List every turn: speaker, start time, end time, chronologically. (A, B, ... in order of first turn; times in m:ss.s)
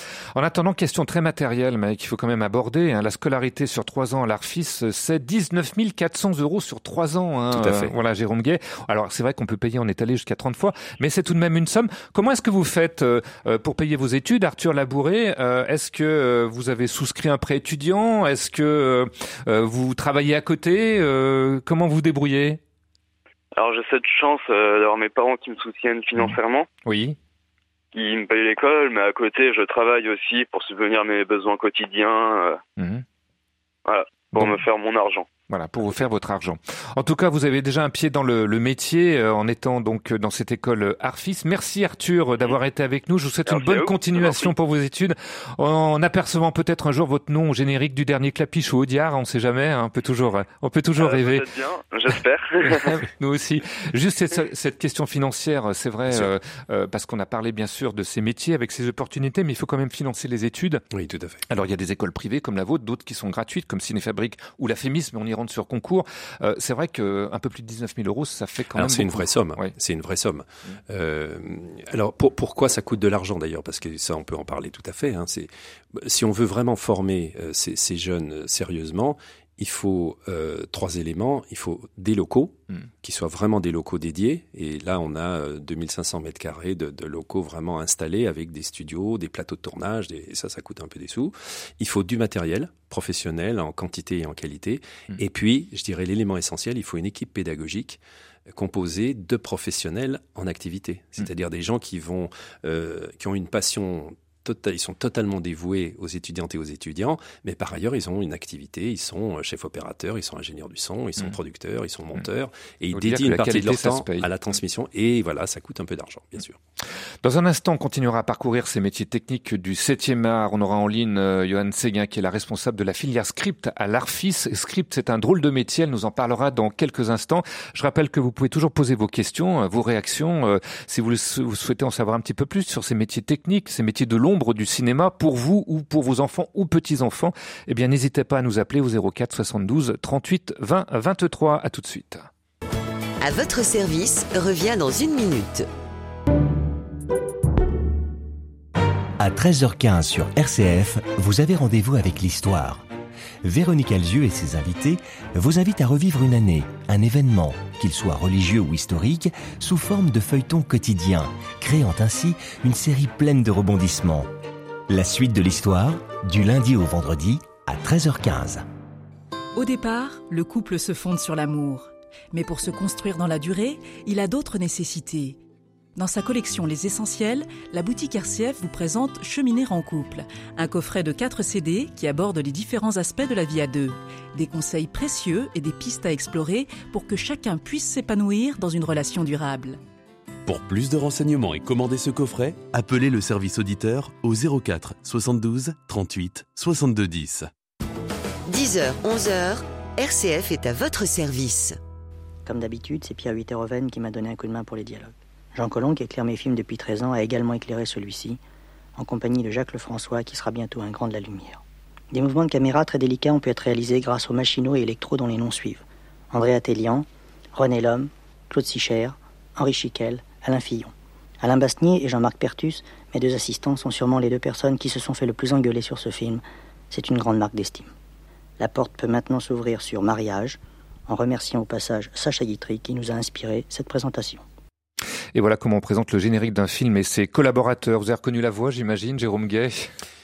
0:00.4-0:22.6 A
0:07.5-0:07.9 B
0:23.6-0:26.7 C
0:26.2-0:27.2 A
0:27.9-0:32.6 C
0:32.8-0:33.0 A
0:33.9-0:35.3 C
0:35.5-0:51.4 A
0:43.5-0:44.5 C
0:51.0-0:53.0 C
0:52.8-1:00.8 A
1:00.9-1:01.4 B
1:01.5-1:09.7 A
1:08.7-1:56.6 B
1:52.9-1:54.3 A
1:57.2-2:22.3 A
2:23.2-2:25.6 D
2:29.2-2:32.9 E
2:33.4-2:44.3 E
2:44.9-2:48.6 E
2:49.6-2:55.4 F
2:56.0-3:09.8 F
3:10.5-3:17.5 G
3:18.5-3:21.8 D
3:22.4-3:28.4 H
3:29.0-3:31.6 H
3:32.1-3:47.9 H
3:48.6-3:54.4 H
3:55.4-3:59.9 A